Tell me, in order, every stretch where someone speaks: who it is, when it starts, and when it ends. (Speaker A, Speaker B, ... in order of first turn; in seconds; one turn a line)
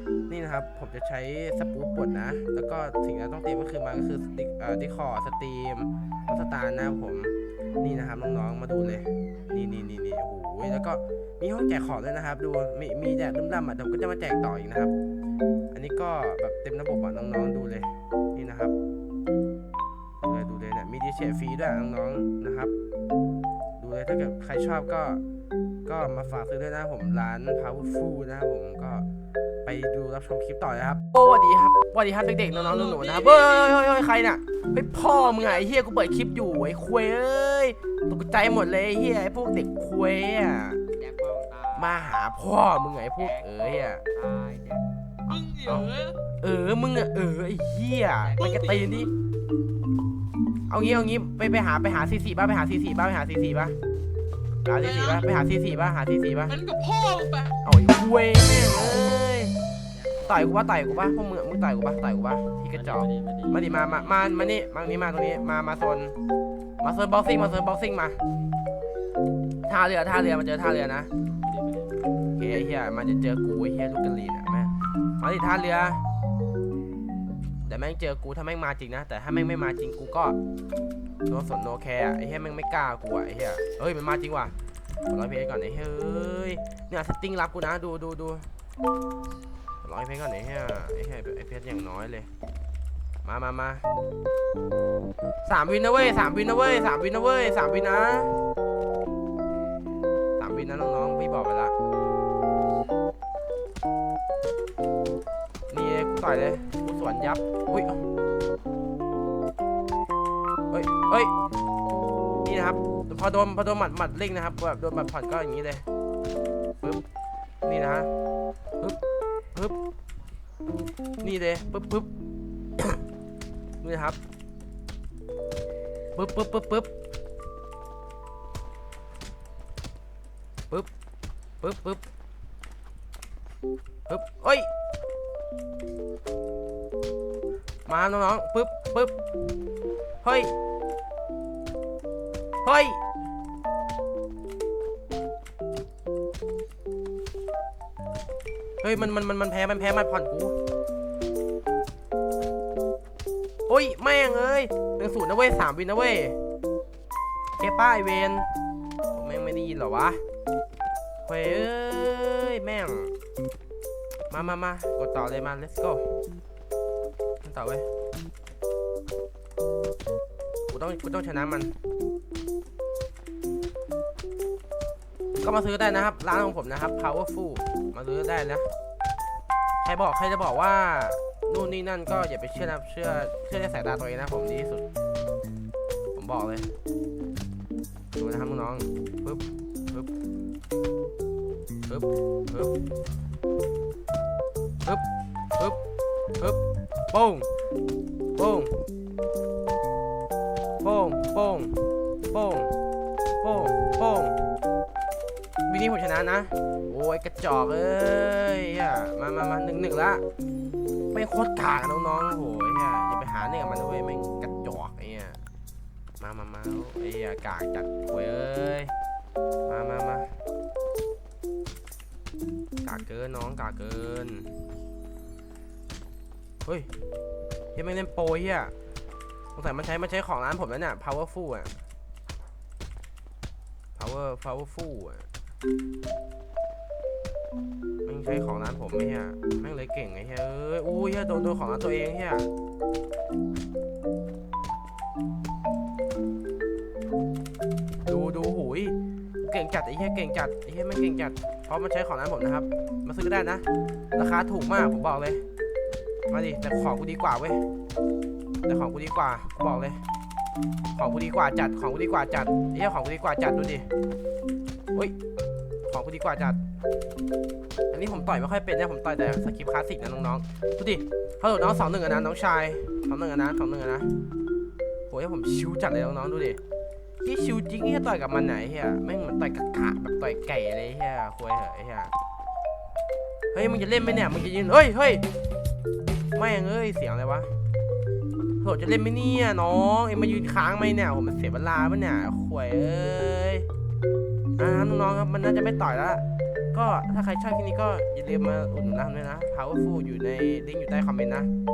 Speaker A: 0.3-14.9
Speaker A: 15.7-18.7
Speaker A: 20.2-22.7
Speaker A: 23.8-25.2
Speaker A: 25.9-29.1
Speaker A: 29.6-40.8
Speaker B: 32.5-33.8
Speaker B: 35.0-35.5
Speaker C: 41.0-42.0
Speaker A: 41.7-44.0
Speaker C: 43.2-44.9
Speaker B: 45.3-46.2
Speaker A: 45.5-49.1
Speaker B: 48.4-49.0
Speaker A: 50.7-53.8
Speaker A: 54.6-56.6
Speaker B: 54.8-55.2
Speaker B: 56.5-57.6
Speaker A: 57.6-59.5
Speaker C: 59.9-60.4
Speaker A: 60.3-66.2
Speaker C: 62.7-64.4
Speaker A: 66.8-68.2
Speaker A: 69.7-71.1
Speaker C: 71.4-72.1
Speaker A: 72.4-76.0
Speaker A: 77.7-80.4
Speaker A: 81.3-84.5
Speaker A: 85.1-88.5
Speaker A: 89.8-92.3
Speaker A: 93.2-93.9
Speaker A: 95.5-98.4
Speaker A: 100.4-101.7
Speaker A: 105.7-108.1
Speaker A: 110.7-111.3
Speaker A: 112.4-115.8
Speaker A: 117.7-118.1
Speaker A: 119.5-119.8
Speaker A: 121.2-122.1
Speaker A: 123.8-124.2
Speaker A: 126.2-126.9
Speaker A: 131.6-132.1
Speaker A: 134.1-134.7
Speaker A: 137.9-139.2
Speaker A: 140.2-140.6
Speaker A: 142.6-143.0
Speaker A: 148.8-150.6
Speaker A: 153.7-156.4
Speaker A: 157.6-158.5
Speaker A: 159.1-160.2
Speaker A: 161.3-163.1
Speaker A: 164.3-166.1
Speaker A: 167.4-167.9
Speaker A: 170.7-171.8
Speaker A: 175.4-178.7
Speaker A: 179.8-184.8
Speaker A: 186.2-186.7
Speaker A: 188.2-190.1
Speaker A: 191.9-192.8
Speaker A: 194.8-195.8
Speaker A: 196.4-197.5
Speaker A: 198.3-198.9
Speaker A: 200.8-202.8
Speaker A: 203.4-204.4
Speaker A: 205.7-210.2
Speaker A: 211.1-215.4
Speaker A: 216.2-218.9
Speaker A: 219.7-220.4
Speaker A: 222.8-224.6
Speaker A: 226.7-226.9
Speaker A: 227.8-228.7
Speaker A: 229.5-231.8
Speaker A: 234.0-235.3
Speaker A: 238.1-242.5
Speaker A: 248.1-255.4
Speaker A: 256.3-257.7
Speaker A: 258.6-260.0
Speaker A: 260.9-263.9
Speaker A: 265.9-266.6
Speaker A: 267.9-274.1
Speaker A: 275.1-276.6
Speaker A: 277.2-282.1
Speaker A: 283.5-285.3
Speaker A: 286.3-287.6
Speaker A: 288.6-293.7
Speaker A: 294.6-301.5